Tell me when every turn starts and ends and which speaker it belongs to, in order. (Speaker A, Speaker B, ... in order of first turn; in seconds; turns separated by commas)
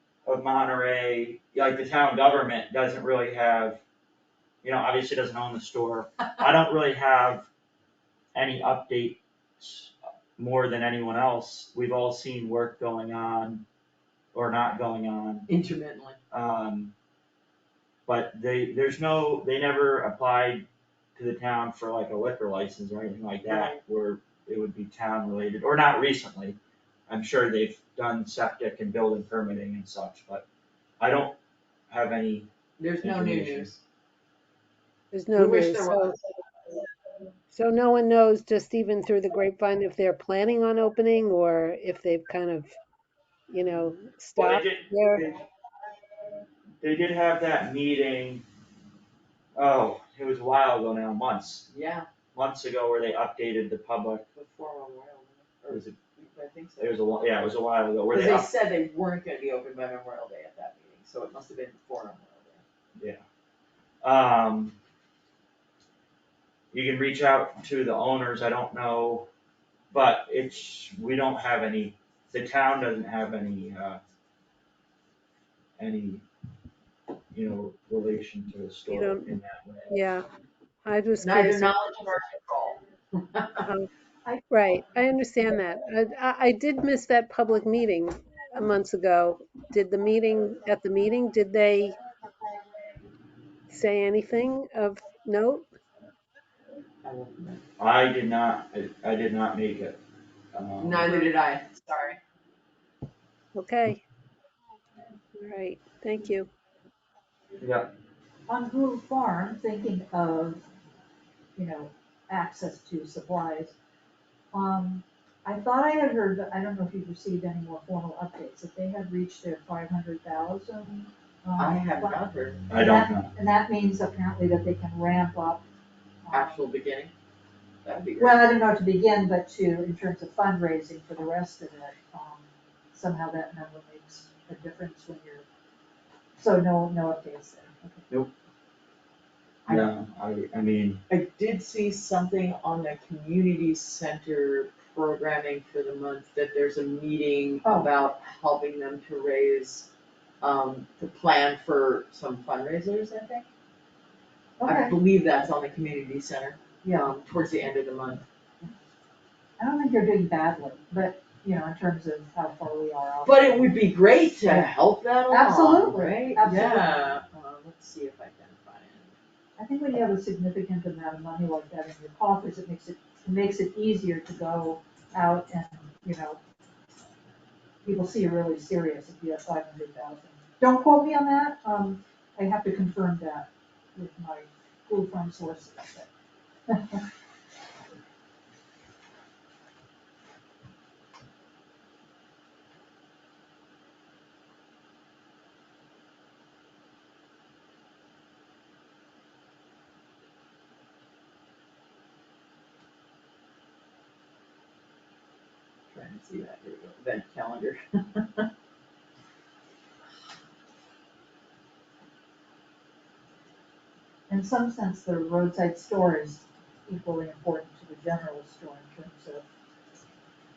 Speaker A: 0.3-3.8, Speaker A: 4.6-7.5, Speaker A: 8.3-13.7, Speaker A: 14.3-15.5, Speaker B: 15.5-16.2, Speaker A: 16.3-16.9, Speaker A: 18.1-30.4, Speaker B: 23.4-23.8, Speaker A: 31.0-31.4, Speaker A: 31.9-32.5, Speaker B: 32.8-33.8, Speaker A: 33.0-33.7, Speaker C: 35.1-36.2, Speaker B: 35.3-36.2, Speaker C: 37.5-42.7, Speaker C: 43.5-45.3, Speaker A: 44.4-45.4, Speaker A: 46.8-48.5, Speaker A: 49.6-51.7, Speaker B: 51.7-52.1, Speaker A: 52.3-54.2, Speaker B: 54.4-57.0, Speaker A: 56.8-58.5, Speaker B: 58.1-62.6, Speaker A: 63.0-63.2, Speaker A: 64.0-64.8, Speaker A: 66.7-69.3, Speaker A: 69.9-74.0, Speaker A: 75.8-76.2, Speaker A: 77.3-79.9, Speaker C: 78.9-79.3, Speaker C: 79.9-80.2, Speaker C: 80.8-81.8, Speaker B: 81.2-83.7, Speaker C: 83.6-83.9, Speaker C: 84.5-92.0, Speaker C: 93.7-95.7, Speaker B: 97.0-97.6, Speaker A: 97.8-100.0, Speaker A: 100.5-101.2, Speaker B: 100.8-102.2, Speaker C: 103.5-104.0, Speaker C: 105.3-106.5, Speaker A: 107.6-107.9, Speaker D: 108.5-110.7, Speaker D: 111.6-113.8, Speaker D: 114.5-125.6, Speaker B: 121.6-122.7, Speaker A: 122.7-123.3, Speaker D: 126.2-126.6, Speaker B: 126.3-127.1, Speaker B: 127.8-128.5, Speaker D: 128.2-135.4, Speaker D: 136.4-138.0, Speaker A: 139.7-141.0, Speaker B: 141.1-149.9, Speaker D: 147.6-147.9, Speaker B: 150.4-153.5, Speaker D: 154.6-155.0, Speaker B: 154.7-158.2, Speaker D: 156.8-157.1, Speaker D: 159.6-163.8, Speaker B: 163.2-169.2, Speaker D: 165.3-167.2, Speaker D: 169.6-176.4, Speaker D: 177.8-186.1, Speaker D: 186.7-187.0, Speaker B: 205.9-208.5, Speaker D: 214.3-219.4